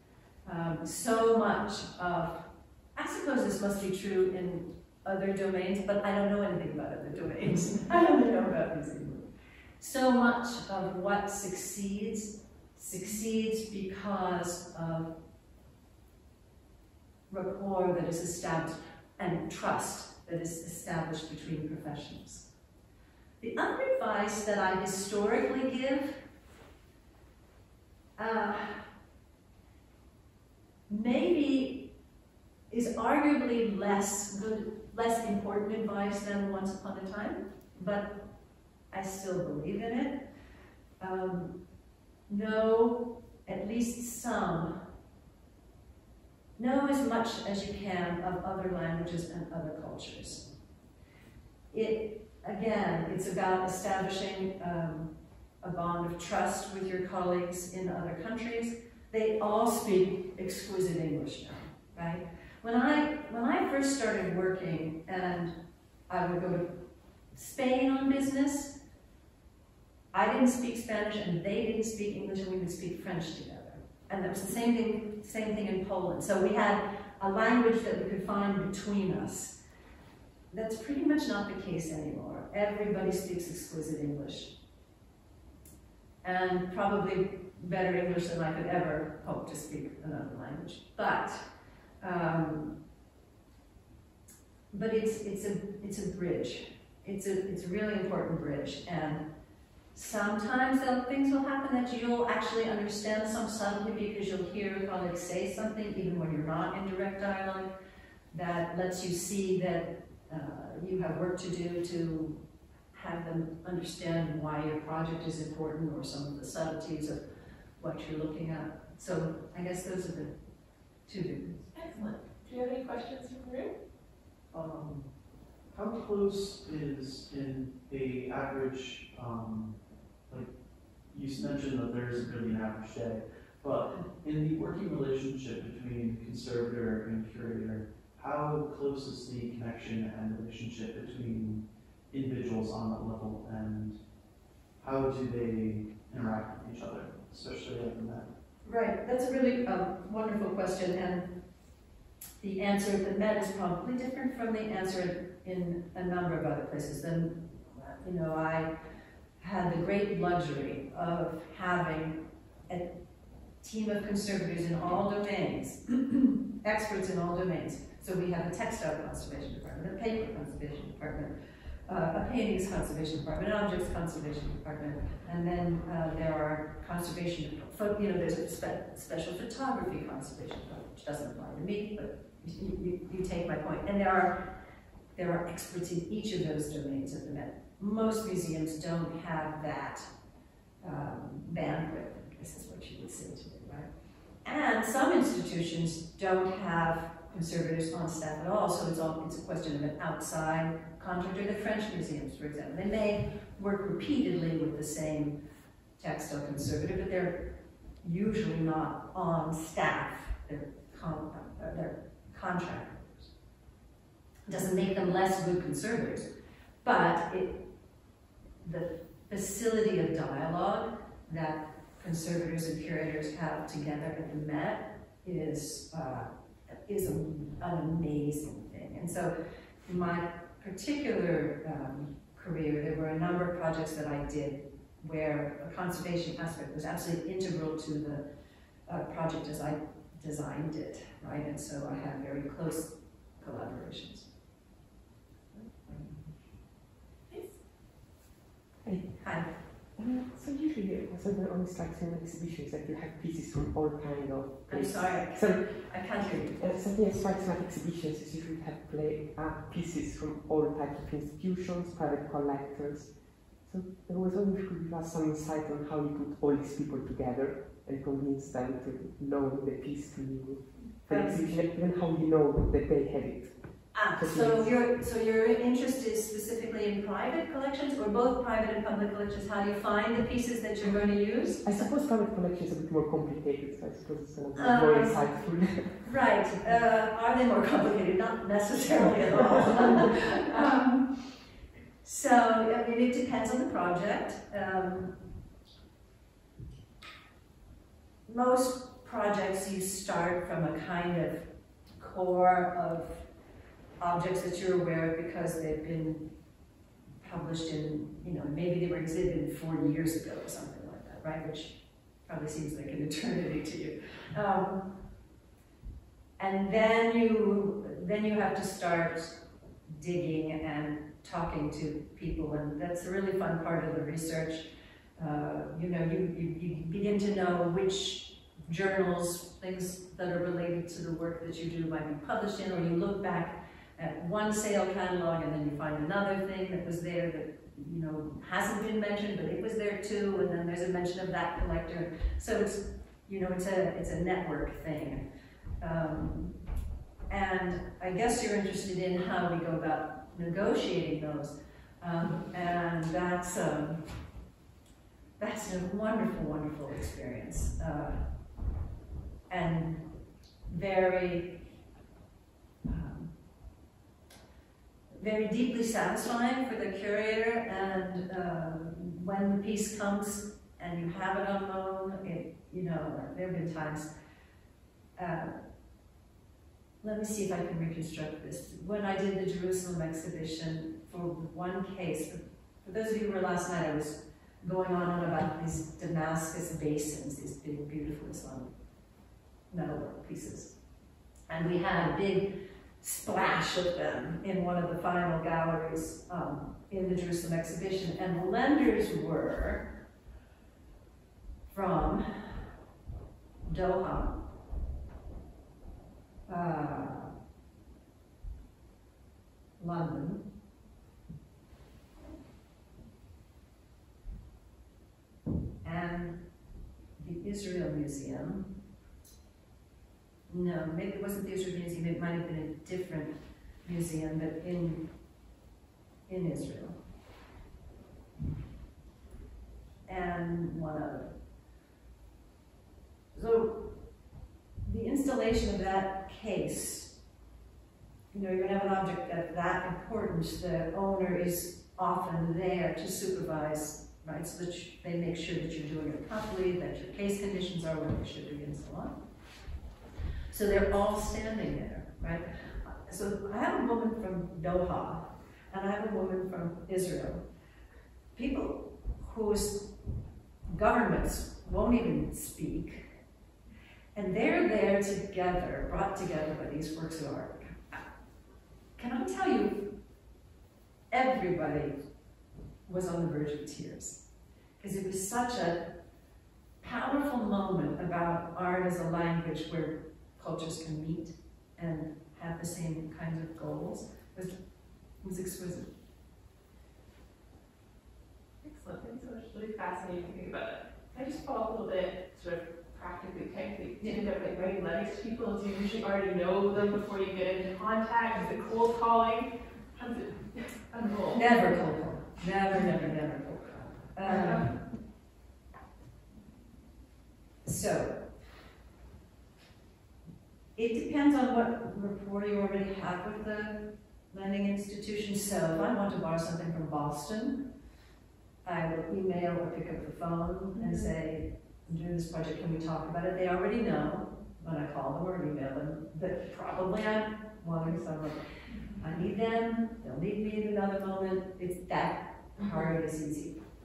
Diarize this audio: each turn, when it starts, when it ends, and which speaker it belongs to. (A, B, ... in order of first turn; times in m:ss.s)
0:00.4-0:15.1 A
0:17.3-0:22.5 A
0:23.4-0:26.2 A
0:28.2-0:28.8 A
0:30.9-0:31.8 A
0:32.7-0:38.2 A
0:38.9-0:40.2 A
0:41.0-0:41.5 A
0:42.3-0:44.8 A
0:46.6-0:50.4 A
0:51.7-0:55.1 A
0:55.6-1:05.5 A
1:06.1-1:06.8 A
1:07.3-1:08.7 A
1:10.1-1:19.6 A
1:20.5-1:24.5 A
1:26.2-1:31.4 A
1:32.0-1:32.7 A
1:34.7-1:39.2 A
1:39.9-1:47.7 A
1:48.3-1:52.4 A
1:52.9-1:57.2 A
1:57.8-2:00.4 A
2:01.0-2:01.7 A
2:01.7-2:03.7 B
2:04.5-2:05.1 C
2:05.7-2:24.0 C
2:24.8-2:28.3 C
2:28.6-2:31.3 A
2:32.4-2:38.7 A
2:39.4-2:42.9 A
2:43.6-2:51.3 A
2:51.8-3:04.4 A
3:05.1-3:10.1 A
3:10.8-3:13.9 A
3:14.4-3:25.4 A
3:26.0-3:27.5 A
3:28.0-3:33.3 A
3:34.4-3:36.3 A
3:36.8-3:37.6 A
3:38.6-3:49.3 A
3:49.8-3:58.2 A
3:58.9-4:04.3 A
4:05.8-4:06.2 A
4:07.3-4:07.6 B
4:08.8-4:15.8 D
4:09.2-4:09.5 A
4:14.7-4:16.6 A
4:16.6-4:34.8 D
4:31.1-4:31.7 A
4:33.9-4:41.6 A
4:41.6-4:46.1 D
4:44.5-4:51.4 A
4:49.6-4:50.0 D
4:52.0-4:55.1 A
4:58.2-5:01.4 A
5:02.0-5:03.2 A
5:04.0-5:06.3 A
5:07.2-5:14.9 A
5:16.4-5:45.2 A
5:45.8-5:46.5 A
5:47.3-5:54.0 A
5:55.4-5:58.2 A
5:59.5-6:00.0 A
6:00.7-6:01.6 A
6:02.8-6:03.3 A
6:05.2-6:14.1 A
6:15.2-6:15.6 A
6:17.0-6:28.7 A
6:29.7-6:30.7 A
6:31.5-6:39.9 A
6:41.7-6:42.2 A
6:43.6-6:44.4 A
6:46.5-6:47.3 A
6:49.8-6:50.4 A
6:55.8-6:56.4 A
6:57.2-6:58.7 A
7:00.5-7:05.0 A
7:06.3-7:07.0 A
7:10.0-7:11.3 A
7:13.3-7:14.0 A
7:14.8-7:17.1 A
7:18.3-7:29.1 A
7:30.5-7:37.4 A
7:38.3-7:39.9 A
7:40.7-7:43.0 A
7:44.1-7:48.0 A
7:49.0-7:49.9 A
7:51.1-7:52.0 A
7:52.8-7:54.2 A
7:54.8-7:55.9 A
7:56.8-8:04.6 A
8:05.2-8:05.9 A
8:08.6-8:21.5 B
8:21.3-8:24.8 A
8:24.2-8:24.7 B
8:27.6-8:28.2 A
8:30.8-8:37.7 A
8:38.6-8:48.4 A
8:40.8-8:41.1 B
8:49.0-8:53.6 A